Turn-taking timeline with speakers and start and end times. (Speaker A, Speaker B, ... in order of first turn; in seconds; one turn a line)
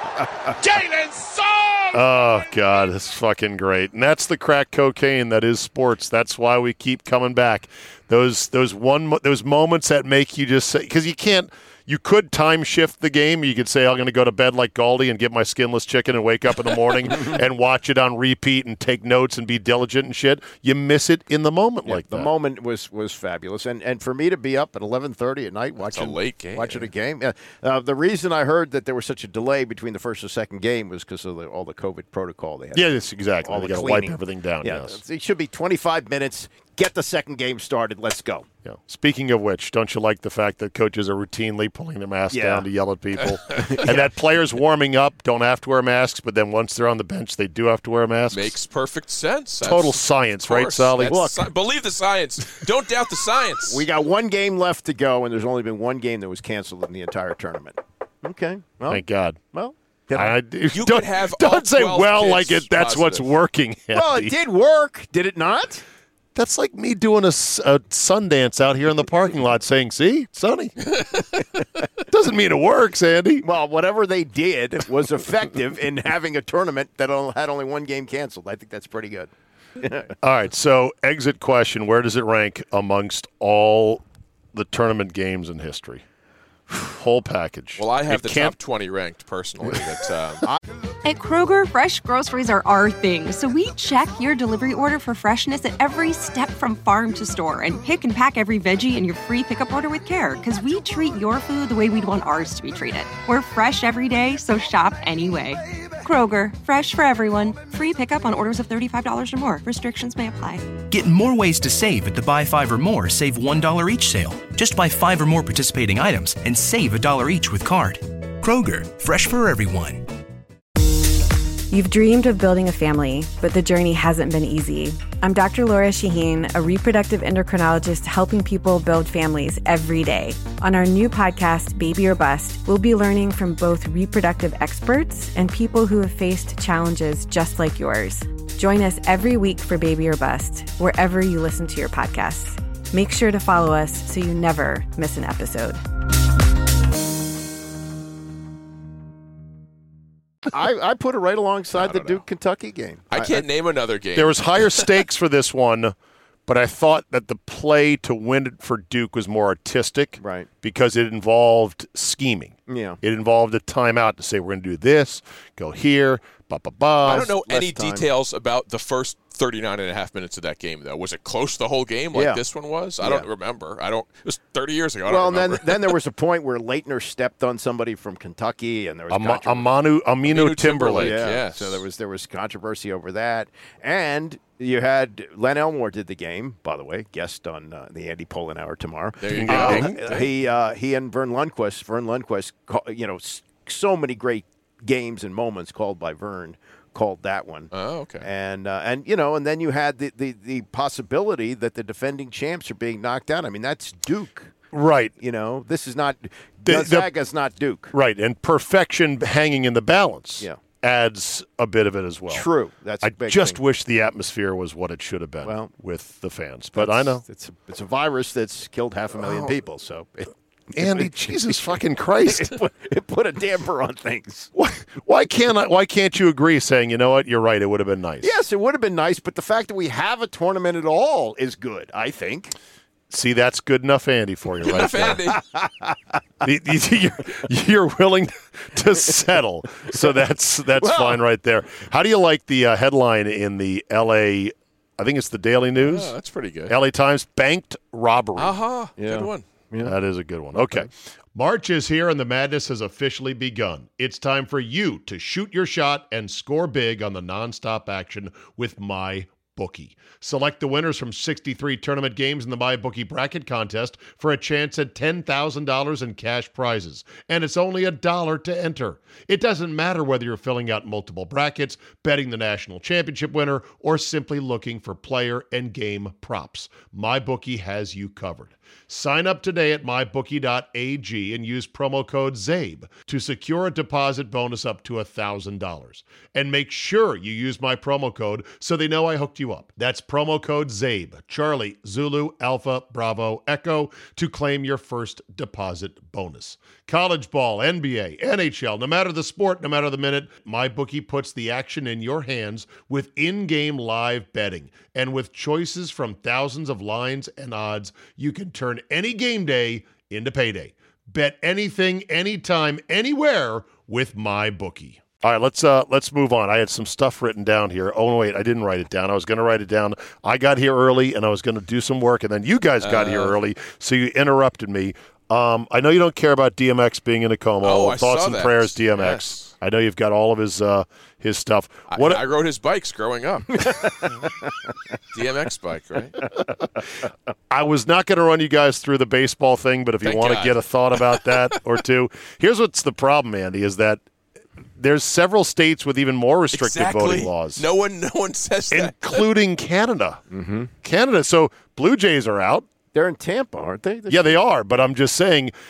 Speaker A: 0.6-2.8
Speaker B: 1.9-22.3
Speaker C: 21.9-32.9
Speaker D: 25.8-26.9
Speaker B: 32.7-35.0
Speaker C: 33.4-38.5
Speaker B: 38.6-48.5
Speaker C: 42.3-42.6
Speaker C: 43.5-44.1
Speaker D: 48.3-53.8
Speaker B: 49.6-51.3
Speaker C: 51.0-51.3
Speaker C: 53.7-60.3
Speaker B: 58.9-59.4
Speaker B: 60.1-64.3
Speaker D: 60.7-63.3
Speaker C: 63.9-65.8
Speaker B: 66.3-70.7
Speaker B: 72.1-73.4
Speaker C: 73.4-79.3
Speaker C: 79.8-80.1
Speaker B: 80.2-84.0
Speaker B: 84.5-86.0
Speaker B: 86.7-88.5
Speaker D: 87.8-90.4
Speaker E: 91.0-110.8
Speaker F: 110.8-120.0
Speaker G: 121.7-145.8
Speaker C: 150.5-153.4
Speaker D: 151.7-152.2
Speaker D: 153.1-154.9
Speaker B: 154.1-155.9
Speaker B: 156.5-167.3
Speaker C: 160.2-160.5
Speaker C: 162.7-163.0
Speaker C: 167.0-168.1
Speaker D: 167.0-176.0
Speaker C: 172.1-172.4
Speaker C: 173.0-173.3
Speaker C: 175.1-179.7
Speaker B: 179.1-181.3
Speaker D: 180.3-181.8
Speaker C: 180.9-204.5
Speaker D: 189.2-190.3
Speaker B: 189.3-190.0
Speaker D: 197.7-198.2
Speaker B: 204.7-205.1
Speaker C: 205.2-207.9
Speaker B: 206.7-207.1
Speaker B: 207.9-212.5
Speaker C: 212.3-213.6
Speaker B: 213.0-217.2
Speaker C: 215.4-215.7
Speaker C: 216.8-221.6
Speaker B: 219.2-219.5
Speaker B: 220.7-222.5
Speaker C: 222.2-224.5
Speaker B: 224.6-228.3
Speaker C: 228.2-232.5
Speaker B: 233.1-235.2
Speaker D: 234.6-235.4
Speaker C: 235.3-235.9
Speaker B: 236.4-246.1
Speaker C: 240.8-241.2
Speaker D: 245.8-246.7
Speaker B: 246.7-248.6
Speaker D: 248.3-249.4
Speaker C: 249.0-249.9
Speaker B: 249.8-332.2
Speaker C: 250.6-250.9
Speaker D: 322.8-323.4
Speaker D: 327.6-329.4
Speaker D: 331.9-333.8
Speaker C: 333.6-333.9
Speaker D: 335.1-336.2
Speaker B: 337.5-344.0
Speaker D: 340.0-341.2
Speaker B: 344.8-347.6
Speaker D: 346.5-349.2
Speaker B: 348.7-350.2
Speaker C: 350.3-350.7
Speaker B: 350.8-352.7
Speaker C: 352.9-354.4
Speaker B: 354.1-355.5